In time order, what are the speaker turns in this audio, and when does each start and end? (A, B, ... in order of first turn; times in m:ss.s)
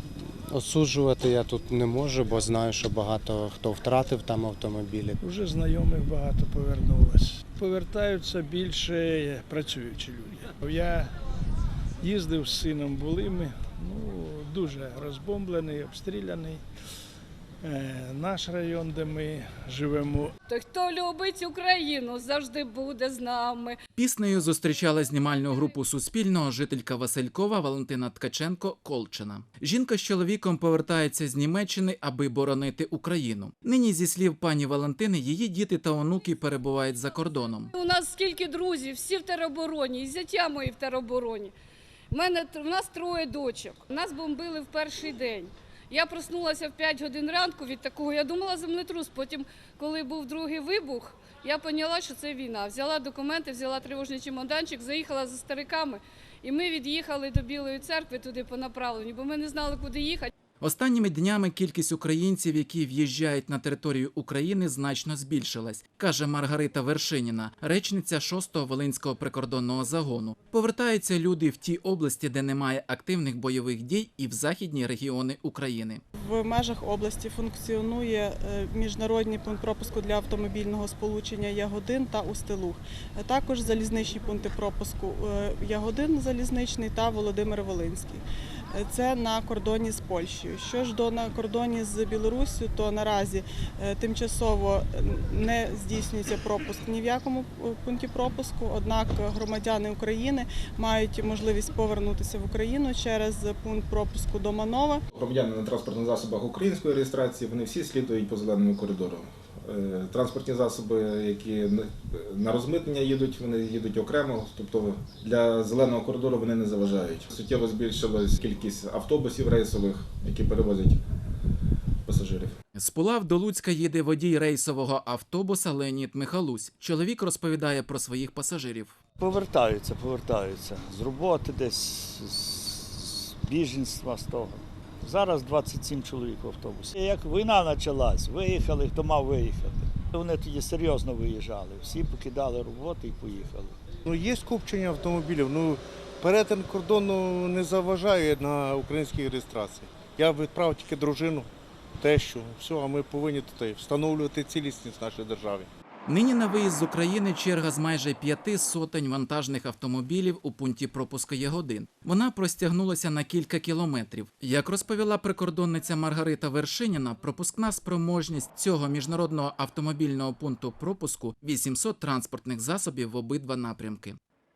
0:00.5-0:05.2 A
0:05.2-0:11.1 B
0:12.0-0:16.6 B
0:17.6-0:20.3 B
0:20.5-0:23.8 C
0:24.0-0:37.7 D
0:37.7-0:41.5 C
0:42.1-1:00.3 C
1:00.6-1:16.0 D
1:16.2-1:28.2 E
1:28.7-1:45.0 E
1:45.1-2:01.0 F
2:02.0-2:02.6 F
2:02.8-2:09.0 D
2:09.2-2:23.8 G
2:24.1-2:31.5 H
2:32.0-2:35.7 H
2:36.1-2:54.2 D